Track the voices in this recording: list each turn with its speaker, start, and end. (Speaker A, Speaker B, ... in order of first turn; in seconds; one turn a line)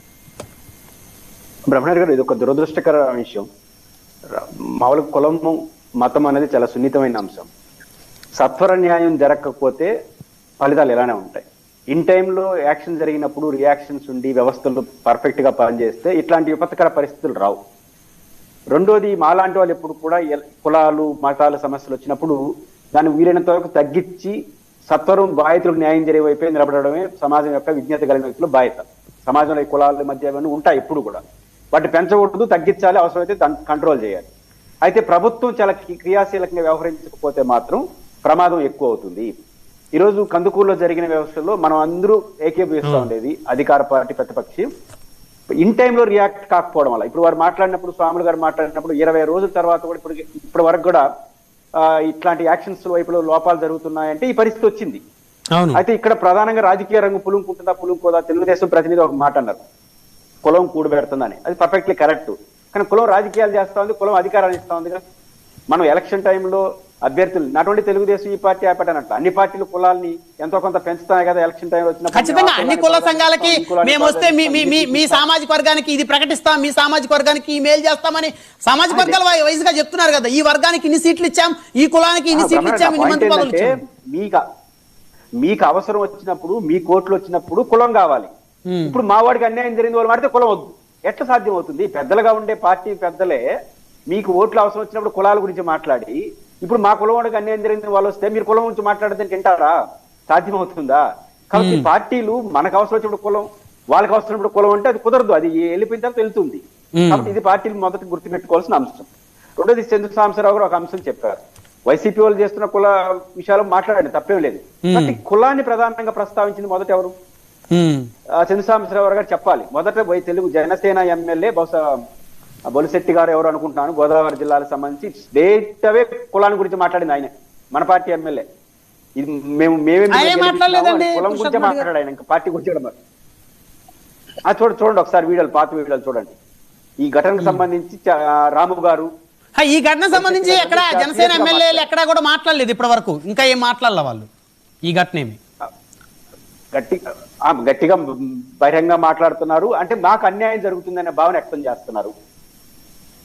Speaker A: 1.7-3.5
Speaker A: 4.3-7.5
Speaker A: 8.4-9.9
Speaker A: 10.6-17.6
Speaker A: 18.7-22.4
Speaker A: 22.9-24.4
Speaker A: 24.9-31.2
Speaker A: 31.7-34.3
Speaker A: 34.8-39.3
Speaker A: 40.0-44.7
Speaker B: 42.8-43.1
Speaker A: 45.6-51.0
Speaker A: 51.8-55.0
Speaker B: 55.5-55.8
Speaker A: 55.8-59.6
Speaker A: 60.4-65.0
Speaker A: 65.7-75.2
Speaker B: 72.1-83.8
Speaker A: 78.9-79.2
Speaker A: 82.3-84.4
Speaker A: 85.4-88.3
Speaker B: 88.7-89.0
Speaker A: 88.9-93.4
Speaker A: 94.1-99.7
Speaker A: 100.3-117.1
Speaker B: 101.5-101.9
Speaker B: 107.0-107.3
Speaker B: 114.8-115.2
Speaker B: 117.7-118.1
Speaker A: 118.4-121.8
Speaker A: 122.7-128.4
Speaker A: 129.2-132.9
Speaker B: 130.1-131.8
Speaker A: 134.4-136.4
Speaker A: 137.0-139.1
Speaker B: 137.4-137.6
Speaker B: 139.6-144.3
Speaker A: 140.1-141.9
Speaker B: 144.9-145.4
Speaker A: 146.7-152.1